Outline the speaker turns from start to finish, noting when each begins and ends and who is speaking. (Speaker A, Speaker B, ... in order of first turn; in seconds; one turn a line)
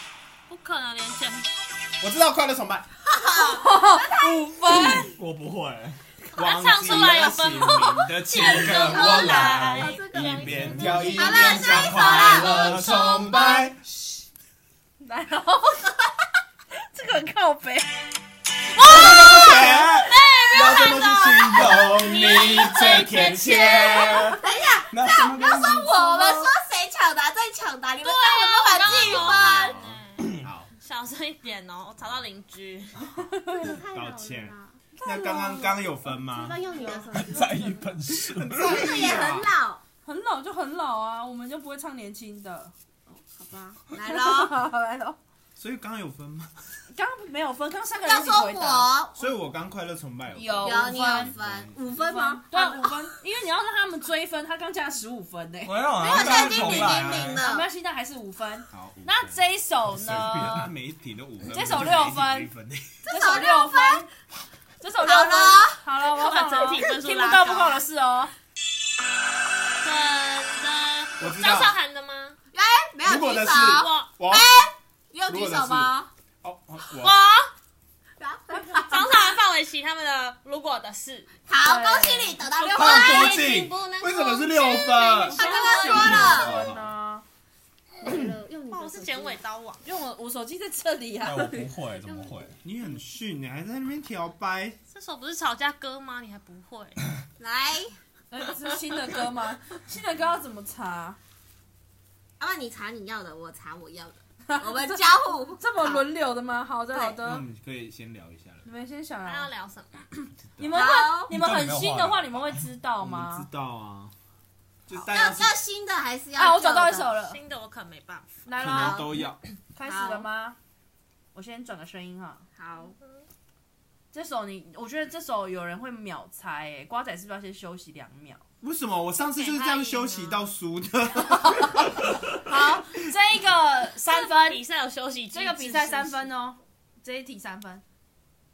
Speaker A: 0.5-1.5
Speaker B: 2.0-2.9
Speaker C: 3.0-4.3
Speaker D: 3.5-5.1
Speaker E: 4.7-6.0
Speaker B: 6.3-13.8
Speaker A: 6.3-10.2
Speaker C: 8.4-13.7
Speaker E: 10.4-13.2
Speaker D: 15.0-16.0
Speaker D: 16.8-17.9
Speaker B: 18.8-24.4
Speaker A: 18.9-19.3
Speaker D: 18.9-19.4
Speaker E: 19.0-20.1
Speaker A: 20.0-24.2
Speaker C: 20.6-29.8
Speaker E: 24.9-26.5
Speaker A: 28.0-33.1
Speaker B: 28.9-30.7
Speaker E: 30.2-30.4
Speaker C: 33.4-34.8
Speaker B: 33.6-37.2
Speaker D: 35.0-35.8
Speaker C: 36.1-37.9
Speaker E: 37.1-38.9
Speaker B: 38.2-39.5
Speaker C: 38.5-39.8
Speaker D: 40.0-42.7
Speaker C: 43.1-44.6
Speaker D: 44.0-45.2
Speaker B: 45.5-46.5
Speaker D: 46.9-48.9
Speaker C: 48.0-49.2
Speaker B: 49.1-51.9
Speaker D: 50.3-51.4
Speaker C: 50.6-52.9
Speaker D: 51.9-60.7
Speaker E: 55.6-57.4
Speaker C: 56.0-57.7
Speaker B: 56.5-57.1
Speaker B: 58.7-59.4
Speaker E: 59.9-60.7
Speaker B: 60.1-63.0
Speaker D: 61.4-62.5
Speaker D: 63.0-64.1
Speaker C: 63.1-64.0
Speaker D: 64.8-68.3
Speaker C: 65.0-65.8
Speaker A: 66.0-67.8
Speaker A: 69.8-72.4
Speaker B: 71.2-71.8
Speaker C: 72.5-76.1
Speaker B: 73.0-74.6
Speaker A: 73.7-74.1
Speaker B: 75.3-77.1
Speaker A: 76.9-77.5
Speaker C: 78.2-79.3
Speaker D: 78.5-79.0
Speaker A: 78.7-81.3
Speaker C: 81.5-83.3
Speaker D: 81.6-82.4
Speaker A: 82.5-86.5
Speaker E: 82.7-83.7
Speaker B: 84.0-86.9
Speaker C: 85.3-86.6
Speaker D: 85.3-87.2
Speaker C: 88.0-89.4
Speaker A: 88.7-89.8
Speaker D: 89.8-91.7
Speaker E: 91.2-92.5
Speaker C: 92.0-92.3
Speaker B: 92.6-94.8
Speaker A: 94.9-97.0
Speaker C: 97.4-97.9
Speaker D: 98.3-101.2
Speaker C: 102.4-106.0
Speaker D: 104.5-107.4
Speaker C: 106.9-107.2
Speaker B: 107.2-108.7
Speaker D: 108.6-109.5
Speaker A: 109.2-110.0
Speaker D: 110.6-113.5
Speaker C: 110.7-111.3
Speaker E: 111.3-112.6
Speaker B: 113.0-114.1
Speaker B: 114.9-115.6
Speaker C: 115.1-117.1
Speaker D: 116.3-117.4
Speaker A: 117.2-118.5
Speaker D: 118.5-119.2
Speaker B: 118.6-119.4
Speaker C: 118.6-119.1
Speaker D: 119.7-120.6
Speaker C: 119.8-120.2
Speaker D: 121.3-122.4
Speaker C: 122.5-122.9
Speaker D: 124.1-128.4
Speaker B: 128.6-132.2
Speaker A: 129.2-130.4
Speaker D: 131.6-134.6
Speaker A: 134.1-136.3
Speaker D: 135.3-137.8